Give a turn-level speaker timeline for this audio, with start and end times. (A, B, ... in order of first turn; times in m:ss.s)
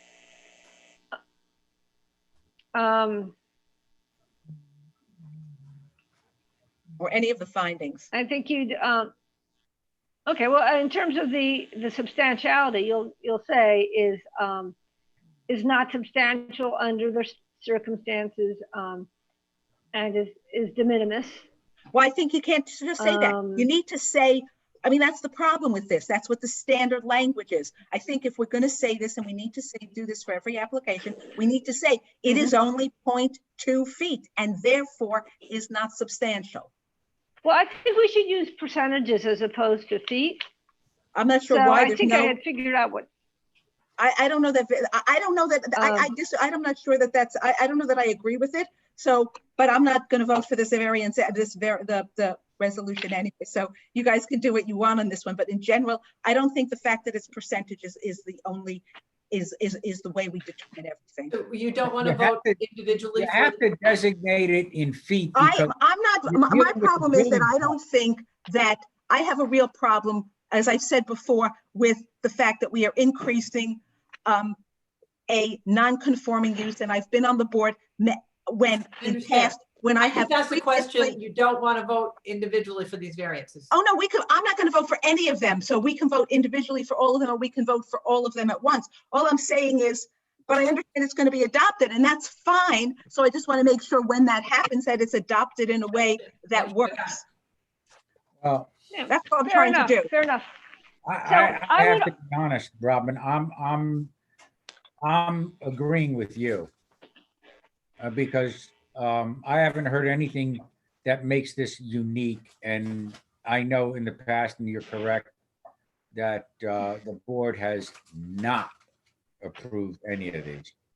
0:02.7-0:03.3 A
0:07.0-0:08.1 B
0:08.1-0:09.1 A
0:10.3-0:14.8 A
0:15.5-0:19.1 A
0:19.9-0:21.4 A
0:21.9-0:36.7 B
0:23.0-0:23.7 A
0:37.4-0:40.4 A
0:41.2-0:42.4 B
0:41.5-0:43.1 A
0:44.0-1:01.4 B
0:45.8-0:46.1 A
1:01.3-1:03.6 C
1:02.0-1:02.6 D
1:03.2-1:05.7 D
1:05.4-1:14.6 B
1:06.3-1:07.7 D
1:15.3-1:21.2 B
1:19.0-1:19.6 C
1:20.1-1:23.7 C
1:23.7-1:37.3 B
1:38.4-1:38.7 D
1:38.9-1:40.5 A
1:39.1-1:40.1 B
1:41.1-1:44.1 D
1:41.2-1:42.1 A
1:45.0-1:46.7 D
1:48.0-1:55.3 D
1:56.1-1:58.7 D
1:59.4-2:00.7 D